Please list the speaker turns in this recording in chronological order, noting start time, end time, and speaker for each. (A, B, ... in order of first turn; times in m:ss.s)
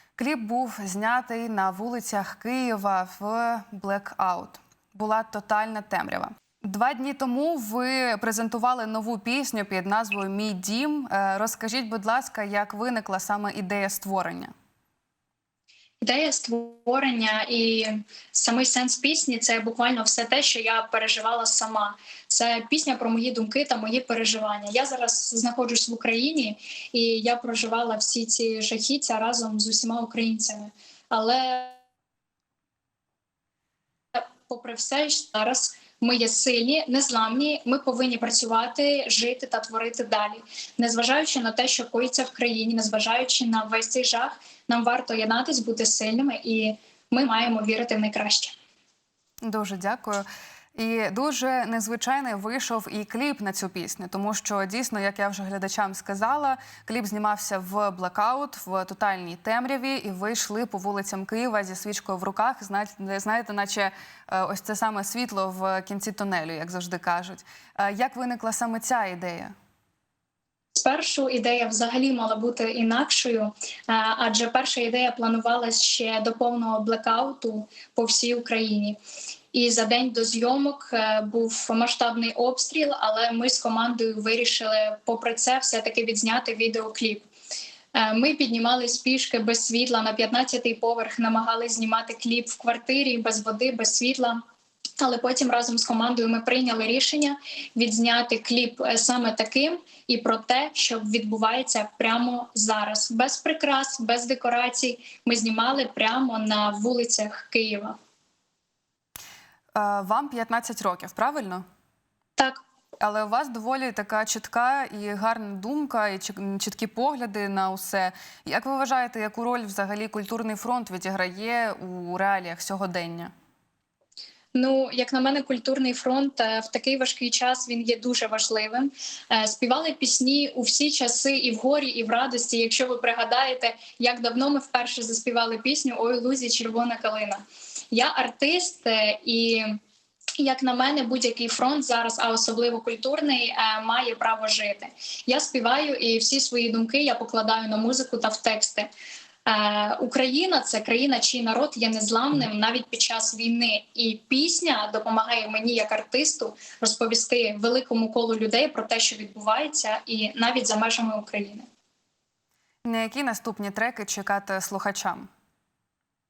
0:00.2-0:14.5 A
0:16.0-0:31.8 B
0:34.1-0:48.5 B
0:49.4-1:09.5 A
1:10.7-1:19.0 B
1:19.5-1:27.3 B
1:27.9-1:34.4 B
1:35.0-1:48.0 B
1:49.7-1:51.6 A
1:53.0-2:03.3 A
2:04.5-2:19.8 B
2:20.4-2:28.9 B
2:29.4-2:41.6 B
2:42.8-2:45.3 A